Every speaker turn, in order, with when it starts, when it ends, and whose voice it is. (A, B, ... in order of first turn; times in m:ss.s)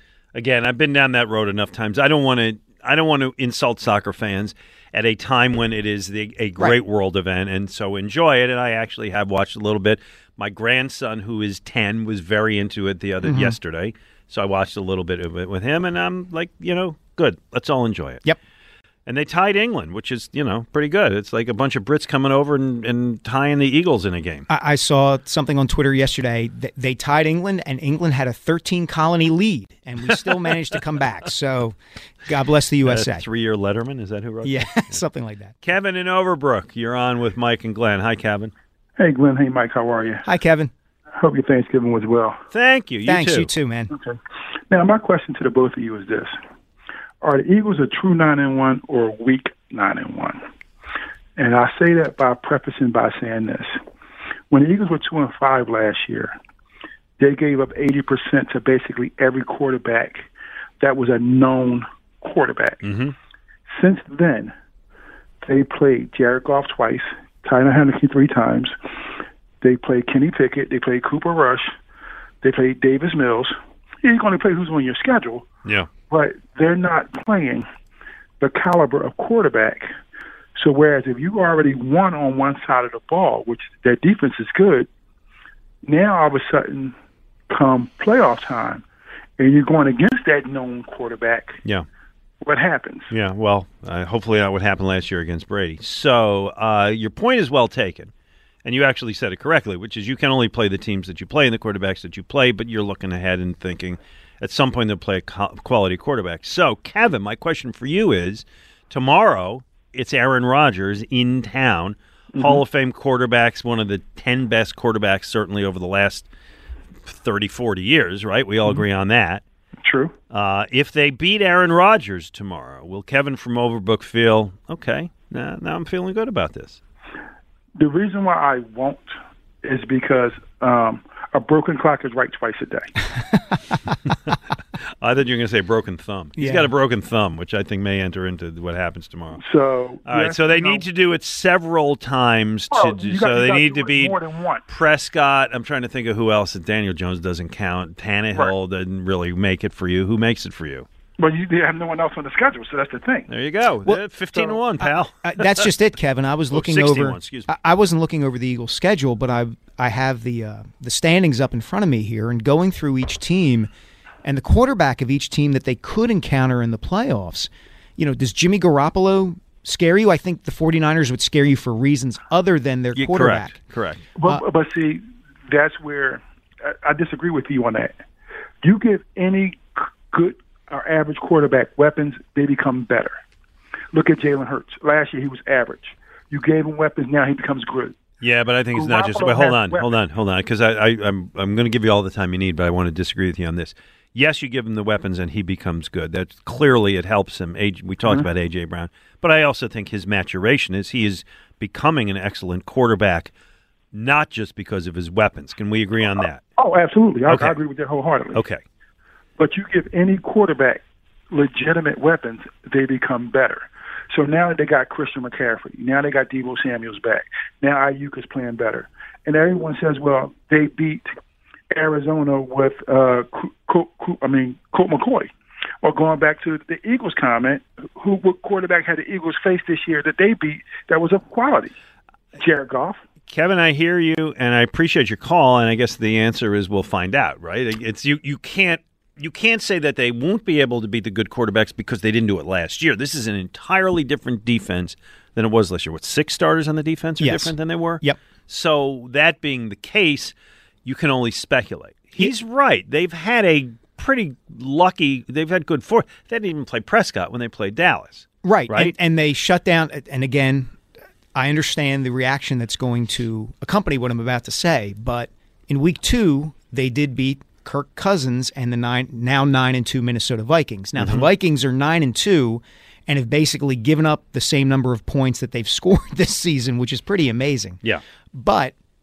0:00.3-0:18.2 A
0:13.2-0:13.6 B
0:19.0-0:24.4 A
0:24.5-0:33.2 B
0:32.8-0:35.0 A
0:34.4-0:35.6 B
0:35.6-0:38.5 A
0:39.0-0:40.2 C
0:40.2-0:40.7 B
0:41.1-0:42.4 C
0:42.5-0:43.5 A
0:43.0-0:43.9 B
0:44.7-0:46.4 C
0:47.2-0:50.4 C
0:51.4-0:53.8 C
0:54.5-0:56.3 C
0:57.2-1:00.3 C
1:00.8-1:02.8 C
1:02.8-1:03.1 A
1:03.7-1:04.5 C
1:05.4-1:08.8 C
1:09.6-1:11.7 C
1:12.4-1:15.4 C
1:16.1-1:17.6 C
1:18.4-1:19.9 C
1:20.6-1:24.9 C
1:25.8-1:26.9 C
1:27.5-1:28.8 C
1:29.4-1:31.6 C
1:32.4-1:33.1 C
1:33.1-1:38.1 A
1:38.6-1:56.3 A
1:52.3-1:52.6 C
1:57.0-1:59.4 A
1:59.8-2:00.1 C
2:00.3-2:06.8 A
2:07.8-2:12.9 C
2:15.0-2:19.4 A
2:16.4-2:16.7 B
2:19.4-2:20.8 C
2:20.0-2:30.9 A
2:22.7-2:24.6 C
2:31.2-2:33.3 C
2:33.3-2:35.7 A
2:33.8-2:43.7 B
2:36.5-2:37.5 A
2:44.2-2:53.6 B
2:53.0-2:54.0 A
2:54.2-2:58.0 C
2:58.6-3:03.2 C
3:03.9-3:08.0 C
3:08.2-3:23.3 A
3:08.7-3:09.9 C
3:23.9-3:26.4 A
3:26.6-3:28.4 C
3:27.3-3:27.6 A
3:28.3-3:28.6 A
3:29.4-3:30.8 C
3:31.3-3:41.1 C
3:41.7-3:51.7 C
3:52.4-3:53.0 C
3:53.3-4:10.3 A
4:07.2-4:08.2 B
4:10.8-4:18.9 A
4:18.4-4:20.7 B
4:21.3-4:37.8 B
4:31.0-4:31.3 A
4:38.3-4:38.7 B